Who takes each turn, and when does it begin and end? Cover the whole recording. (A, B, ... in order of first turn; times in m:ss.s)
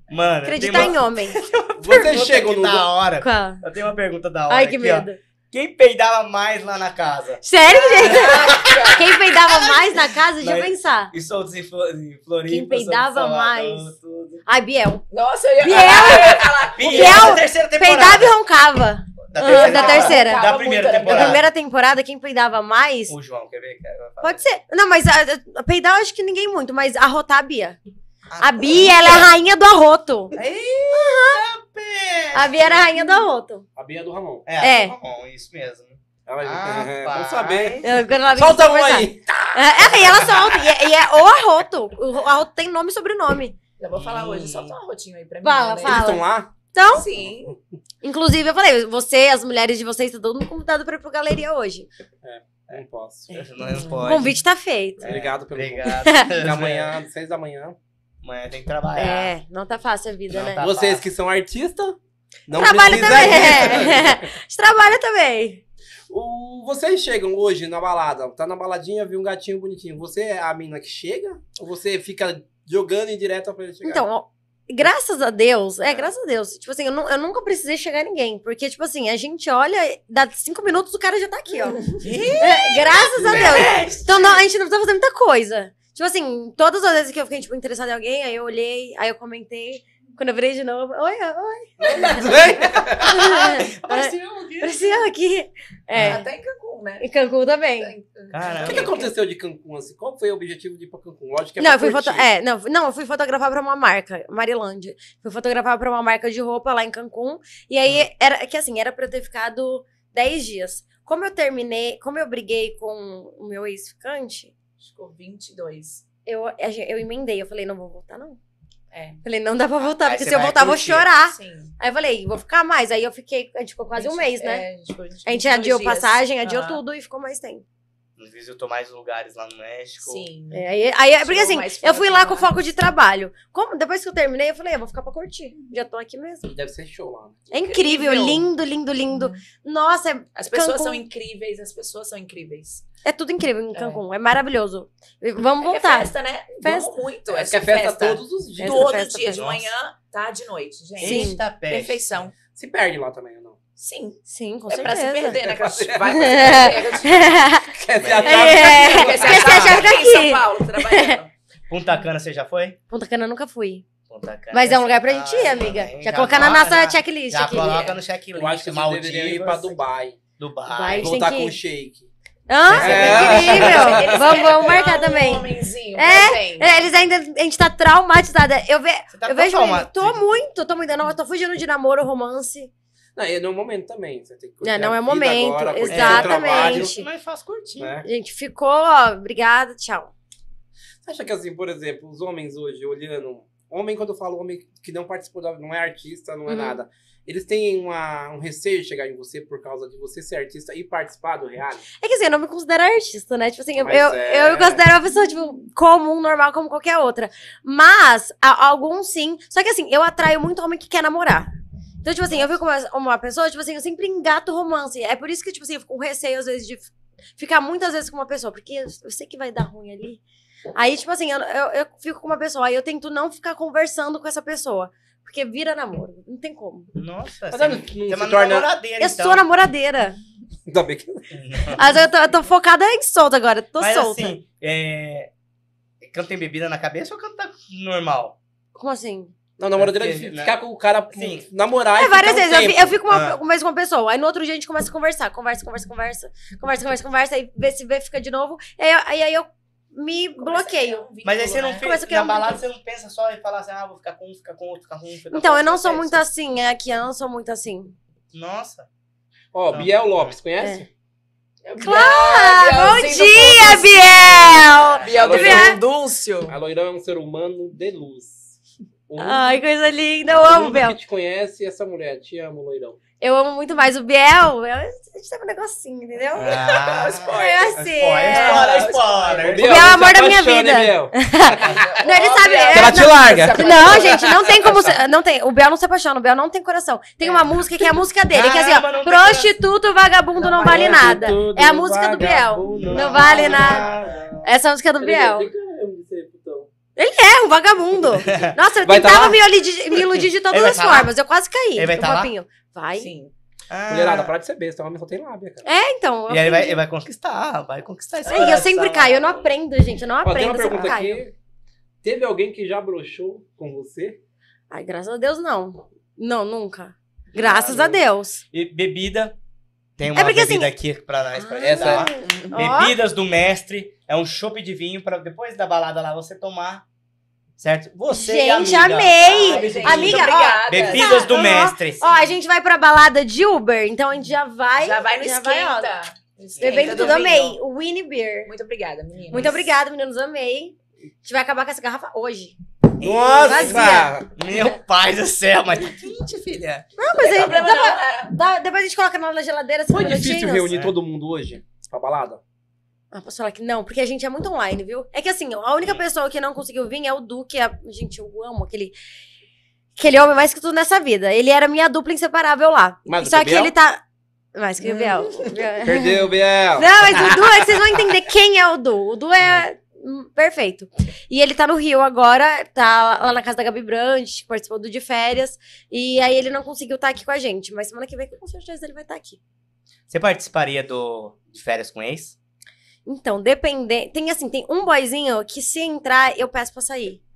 0:00.1-0:07.4 A
0:00.4-0:01.4 B
0:01.8-0:02.9 C
0:03.2-0:03.6 B
0:04.5-0:05.2 B
0:07.4-0:11.1 B
0:07.7-0:09.1 D
0:08.0-0:14.4 A
0:12.5-0:13.9 B
0:14.4-0:15.0 B
0:15.1-0:17.4 D
0:15.6-0:20.5 B
0:16.7-0:18.3 A
0:19.3-0:21.4 A
0:19.4-0:21.4 D
0:21.0-0:23.1 B
0:23.1-0:24.4 A
0:24.2-0:27.8 B
0:28.3-0:29.3 A
0:28.4-0:30.4 B
0:30.3-0:32.8 A
0:30.9-0:31.4 B
0:32.3-0:33.6 B
0:33.8-0:34.4 C
0:34.4-0:37.9 A
0:34.6-0:34.9 B
0:36.2-0:40.4 C
0:37.8-0:43.6 B
0:39.8-0:40.6 A
0:43.8-0:46.2 D
0:43.9-0:44.8 A
0:45.4-0:47.0 B
0:45.8-0:46.5 C
0:46.9-0:47.5 D
0:47.2-0:47.5 C
0:48.0-0:51.9 B
0:52.2-0:53.4 C
0:52.7-0:54.4 A
0:54.0-0:55.0 B
0:55.0-0:56.9 A
0:55.0-0:57.8 C
0:55.9-0:56.3 B
0:58.2-0:59.3 A
0:58.9-1:00.6 B
1:00.3-1:01.0 A
1:00.6-1:02.0 C
1:02.5-1:04.3 C
1:02.5-1:05.6 B
1:06.1-1:14.0 C
1:13.8-1:32.3 B
1:21.9-1:24.0 D
1:22.0-1:24.1 A
1:31.9-1:33.2 C
1:31.9-1:32.3 D
1:32.9-1:35.0 A
1:33.0-1:36.3 B
1:35.9-1:36.2 A
1:36.0-1:37.1 D
1:37.0-1:37.9 B
1:37.8-1:39.1 D
1:38.3-1:39.0 A
1:38.6-1:42.3 C
1:41.6-1:54.5 B
1:54.8-1:56.0 D
1:56.2-1:58.4 B
1:58.9-1:59.2 D
1:59.2-2:04.6 B
1:59.8-2:01.1 A
2:01.2-2:01.7 D
2:03.9-2:06.8 D
2:05.2-2:07.6 B
2:08.2-2:10.3 A
2:10.0-2:10.7 D
2:10.5-2:16.5 B
2:11.2-2:12.6 D
2:16.5-2:17.4 C
2:17.5-2:21.0 B
2:17.6-2:18.5 D
2:19.1-2:19.4 D
2:20.4-2:22.8 D
2:23.0-2:26.9 B
2:23.7-2:24.0 D
2:25.6-2:32.3 D
2:27.3-2:29.0 C
2:28.6-2:29.4 B
2:29.3-2:29.7 A
2:31.0-2:32.2 A
2:31.0-2:31.4 B
2:32.5-2:33.6 C
2:33.8-2:37.4 D
2:34.3-2:35.4 B
2:35.4-2:37.0 C
2:36.1-2:41.2 B
2:37.7-2:39.8 C
2:38.0-2:38.6 A
2:38.2-2:41.3 D
2:41.7-2:42.8 A
2:42.9-2:43.8 B
2:44.1-2:49.8 A
2:44.5-2:47.9 B
2:48.3-2:50.2 C
2:50.4-2:51.2 A
2:50.7-2:51.6 B
2:50.9-2:52.1 C
2:52.5-3:02.7 B
2:52.7-2:53.9 A
2:52.7-2:54.5 C
2:53.0-2:56.9 D
2:59.1-3:00.2 A
3:03.2-3:06.9 C
3:04.6-3:07.1 B
3:05.9-3:08.0 A
3:07.8-3:08.1 C
3:08.0-3:10.1 B
3:11.0-3:21.8 C
3:16.5-3:16.8 B
3:22.0-3:31.5 B
3:23.8-3:24.8 C
3:32.0-3:40.2 B
3:40.8-3:46.9 B
3:46.9-3:49.4 A
3:47.5-3:48.7 C
3:49.0-3:50.2 B
3:50.7-3:51.2 C
3:51.3-3:51.8 A
3:51.7-3:54.3 B
3:53.8-3:55.3 A
3:56.0-3:58.4 A
3:58.7-3:59.3 B
3:59.6-4:02.9 C
3:59.8-4:00.6 A
4:01.1-4:01.4 A
4:01.9-4:11.0 B
4:03.1-4:03.4 A
4:10.4-4:11.9 D
4:11.2-4:16.2 A
4:11.8-4:12.6 B
4:15.3-4:17.9 B
4:18.3-4:18.9 A
4:19.5-4:20.9 C
4:19.7-4:20.4 A
4:20.6-4:20.8 B
4:21.6-4:26.6 D
4:21.8-4:25.8 B
4:24.3-4:25.4 A
4:25.1-4:25.7 C
4:26.5-4:28.6 C
4:29.1-4:29.5 C
4:29.2-4:31.0 B
4:30.4-4:33.0 C
4:33.2-4:38.8 B
4:36.4-4:40.0 A
4:36.4-4:39.6 D
4:39.3-4:41.8 C
4:39.6-4:53.9 B
4:41.5-4:44.4 D
4:42.7-4:45.0 C
4:48.3-4:49.5 A
4:50.4-4:54.4 C
4:50.6-4:51.3 A
4:52.2-4:54.5 A
4:54.4-4:55.5 B
4:55.0-4:56.7 C
4:57.0-5:03.1 B
4:58.2-4:58.6 A
4:58.8-4:59.4 C
4:59.9-5:01.1 A
5:01.7-5:02.3 A
5:02.9-5:03.3 D
5:03.7-5:04.3 A
5:03.9-5:05.6 C
5:05.6-5:06.8 B
5:06.3-5:09.5 A
5:08.2-5:11.2 B
5:10.2-5:11.3 C
5:12.0-5:14.2 C
5:14.7-5:18.4 B
5:17.4-5:18.0 A
5:18.5-5:19.4 A
5:20.0-5:26.8 A
5:20.1-5:20.7 B
5:21.3-5:23.0 B
5:21.6-5:22.2 C
5:22.2-5:22.5 D
5:27.6-5:32.0 A
5:28.1-5:35.9 B
5:29.2-5:31.4 D
5:32.0-5:32.3 D
5:34.8-5:37.6 D
5:36.6-5:37.4 A
5:36.6-5:38.5 B
5:38.4-5:39.7 D
5:39.3-5:42.6 B
5:43.0-5:44.3 C
5:43.0-5:46.9 A
5:43.1-5:44.1 B
5:47.0-5:50.8 B
5:47.1-5:48.3 D
5:49.9-5:52.4 C
5:50.7-5:50.9 A
5:53.1-5:58.9 B
6:00.0-6:04.0 B
6:03.0-6:03.7 C
6:04.5-6:19.4 B
6:05.3-6:07.4 C
6:20.1-6:22.4 A
6:23.0-6:27.2 B